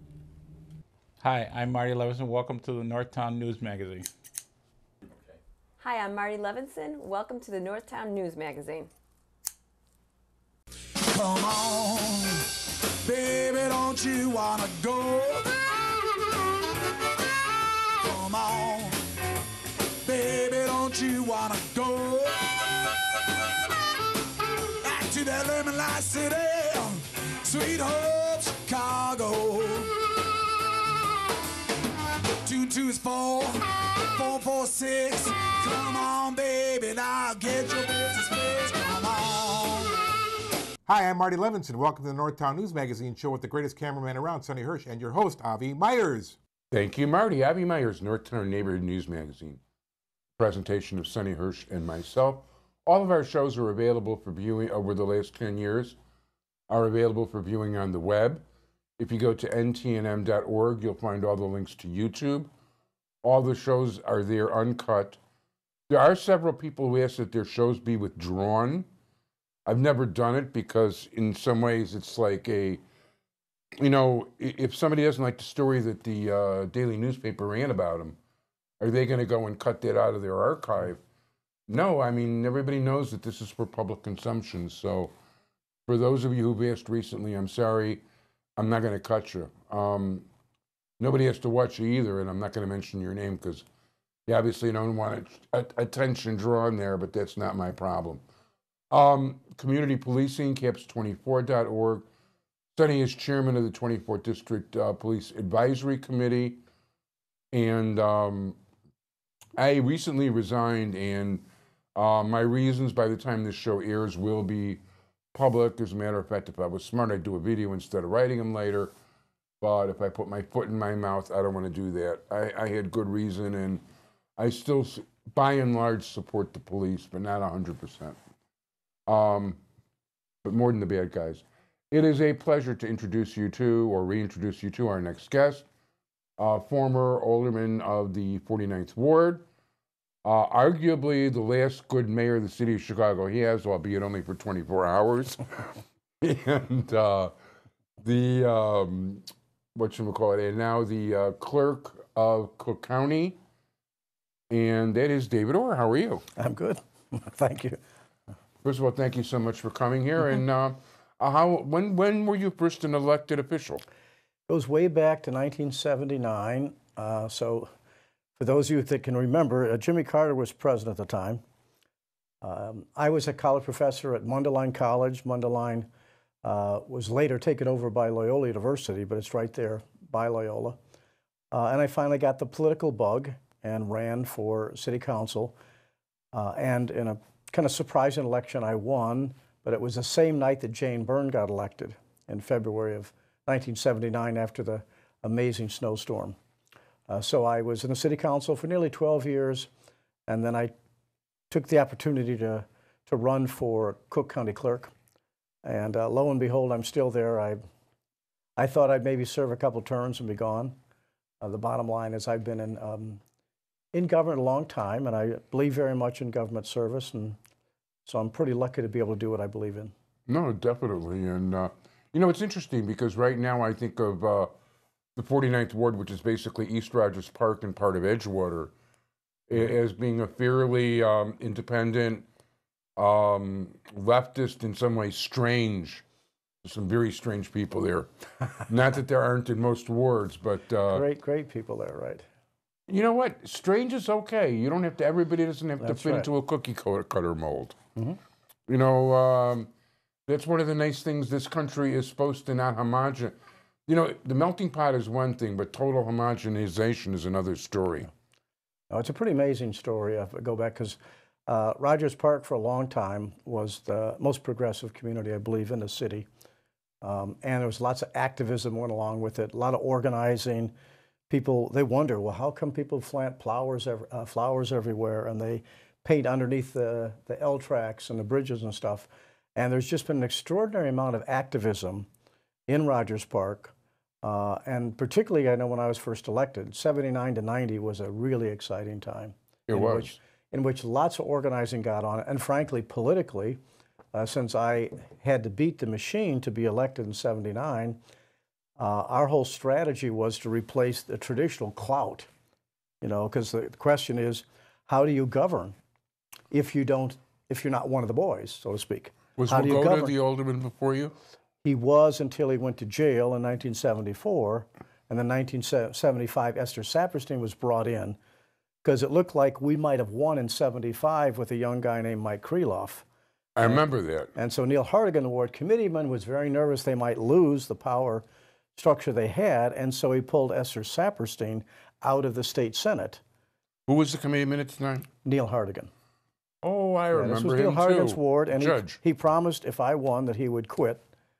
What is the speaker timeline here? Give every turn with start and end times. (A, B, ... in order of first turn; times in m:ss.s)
0:01.2-0:04.1 A
0:05.8-0:08.9 B
0:11.1-0:12.5 C
0:13.0-0:15.7 C
0:18.0-0:19.0 C
0:20.0-0:22.9 C
0:24.8-0:29.9 C
0:32.4-0:40.0 C
0:40.8-0:46.4 D
0:46.7-0:49.6 E
0:50.4-0:56.0 E
0:56.7-0:58.4 E
0:59.0-1:02.5 E
1:03.2-1:05.2 E
1:05.9-1:08.9 E
1:09.6-1:12.8 E
1:13.8-1:18.2 E
1:18.8-1:21.0 E
1:21.7-1:25.1 E
1:25.9-1:28.0 E
1:28.6-1:30.3 E
1:31.0-1:33.6 E
1:34.3-1:38.2 E
1:38.9-1:42.1 E
1:42.8-1:46.6 E
1:47.5-1:48.6 E
1:49.6-1:54.8 E
1:55.3-1:58.9 E
1:59.6-2:03.8 E
2:04.4-2:08.2 E
2:09.1-2:09.6 E
2:10.4-2:15.6 E
2:16.4-2:19.4 E
2:20.2-2:27.3 E
2:28.0-2:33.4 E
2:34.5-2:36.2 E
2:36.4-2:37.8 F
2:38.6-2:43.8 E
2:44.5-2:47.7 F
2:48.4-2:51.4 F
2:52.4-2:55.9 F
2:56.4-3:00.8 F
3:01.5-3:05.6 F
3:06.3-3:16.4 F
3:17.1-3:19.7 F
3:20.3-3:20.7 F
3:21.5-3:24.9 F
3:25.6-3:27.6 F
3:28.6-3:30.8 F
3:31.4-3:33.2 F
3:33.9-3:37.4 F
3:38.0-3:39.9 F
3:40.3-3:44.5 E
3:45.2-3:48.7 E
3:49.5-3:52.2 E
3:53.0-3:56.0 E
3:56.6-3:58.1 E
3:58.6-4:01.0 E
4:00.9-4:02.2 F
4:02.9-4:07.8 E
4:05.8-4:06.3 F
4:08.7-4:09.7 E
4:10.3-4:13.3 E
4:13.9-4:18.1 E
4:18.9-4:26.3 F
4:27.0-4:30.7 F
4:31.3-4:42.1 F
4:42.7-4:53.6 F
4:49.7-4:50.2 E
4:54.1-4:58.0 F
4:58.8-5:02.3 F
5:03.0-5:05.8 F
5:06.5-5:10.1 F
5:09.4-5:11.1 E
5:11.6-5:18.2 F
5:18.8-5:23.0 F
5:23.6-5:24.3 E
5:24.3-5:28.2 F
5:28.8-5:33.2 F
5:33.9-5:35.1 E
5:35.2-5:35.9 F
5:36.6-5:39.0 E
5:37.1-5:41.0 F